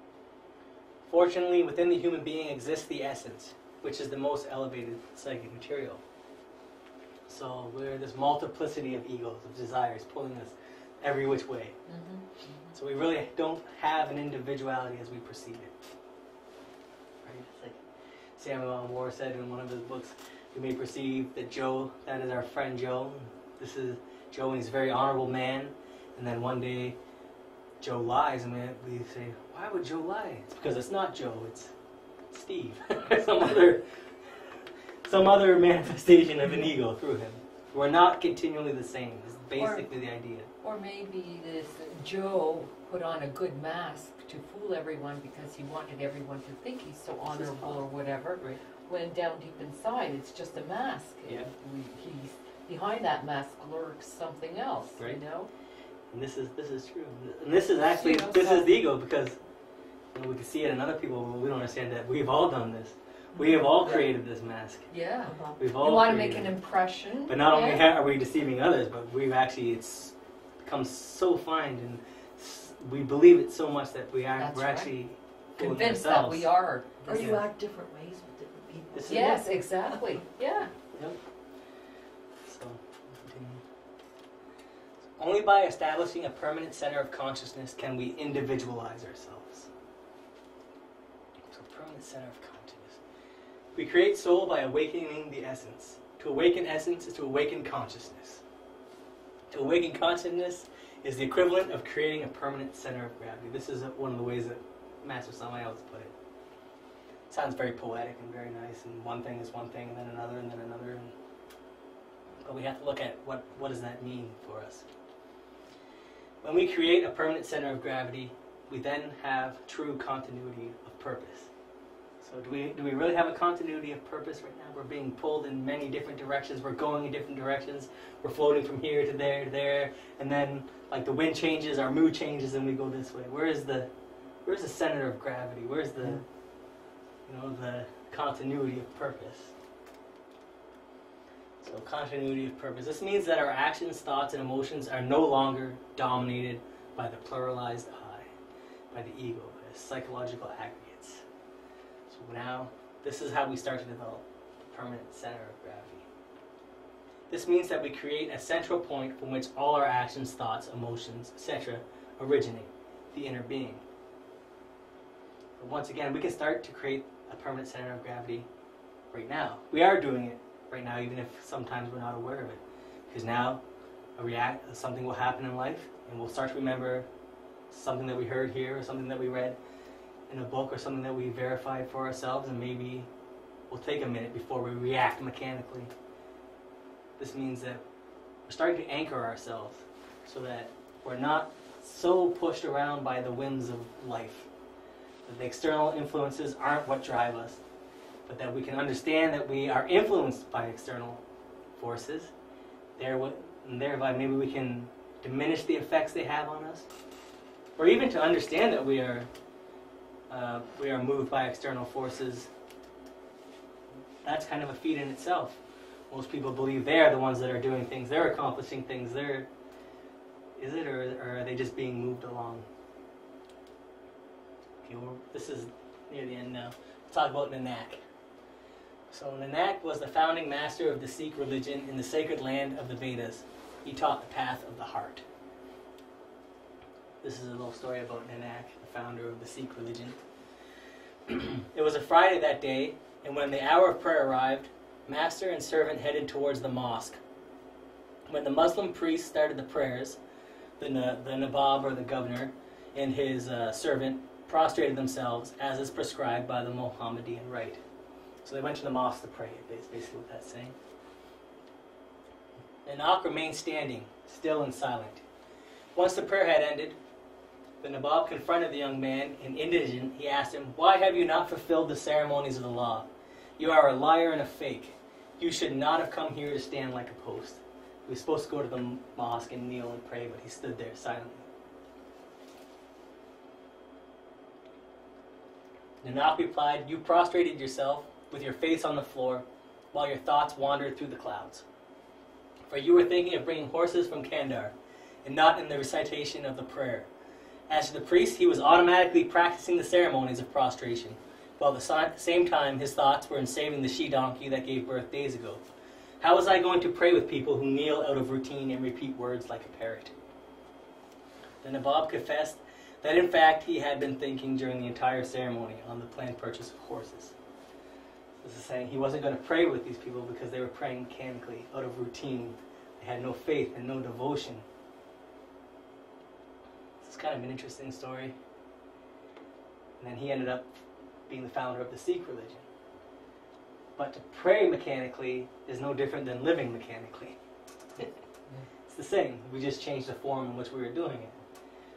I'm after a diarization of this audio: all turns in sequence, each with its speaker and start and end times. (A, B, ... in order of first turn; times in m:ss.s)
0:01.1-0:06.0 A
0:07.3-0:11.8 A
0:11.9-0:12.8 B
0:12.7-0:15.7 A
0:17.2-0:17.8 A
0:18.4-0:27.0 A
0:27.8-0:31.7 A
0:32.3-0:34.5 A
0:35.0-0:40.5 A
0:39.6-0:39.8 B
0:40.6-0:55.5 B
0:47.3-0:47.8 A
0:56.1-0:59.4 A
0:57.8-0:58.7 B
1:00.1-1:04.9 A
1:03.8-1:04.1 C
1:04.9-1:07.9 B
1:05.2-1:05.8 C
1:05.6-1:06.5 A
1:07.3-1:16.5 A
1:14.4-1:15.0 B
1:15.6-1:17.2 B
1:17.0-1:17.4 A
1:17.0-1:20.2 C
1:18.9-1:19.4 A
1:19.1-1:20.7 B
1:22.4-1:23.6 A
1:25.2-1:29.7 A
1:31.5-1:33.0 A
1:33.8-1:38.4 A
1:39.5-1:46.1 A
1:47.3-1:51.1 A
1:52.4-1:54.8 A
1:56.4-2:01.5 A
2:02.2-2:13.9 A
2:14.4-2:16.2 A
2:17.3-2:19.5 A
2:21.6-2:28.3 A
2:28.9-2:31.2 A
2:32.1-2:36.0 A
2:37.3-2:43.8 A
2:45.6-2:48.5 A
2:49.1-2:53.6 A
2:54.2-2:57.1 A
2:57.7-2:59.6 A
3:00.3-3:03.1 A
3:03.7-3:05.9 A
3:07.2-3:07.8 A
3:08.5-3:14.5 A
3:15.3-3:17.6 A
3:18.3-3:21.2 A
3:21.8-3:22.3 A
3:23.0-3:26.9 A
3:27.8-3:29.3 A
3:30.3-3:32.5 A
3:34.2-3:35.6 A
3:36.1-3:39.5 A
3:40.6-3:42.7 A
3:44.8-3:48.0 A
3:49.1-3:55.2 A
3:57.2-4:00.2 A
4:01.3-4:07.2 A
4:08.3-4:10.2 A
4:10.8-4:17.8 A
4:18.4-4:20.8 A
4:22.9-4:25.2 A
4:26.0-4:27.0 A
4:27.8-4:41.4 A
4:46.0-4:51.6 A
4:52.7-4:57.1 A
4:57.7-5:05.6 A
5:06.2-5:10.1 A
5:11.6-5:17.3 A
5:18.4-5:24.6 A
5:27.0-5:28.4 A
5:30.0-5:32.6 A
5:34.0-5:37.4 A
5:38.9-5:41.4 A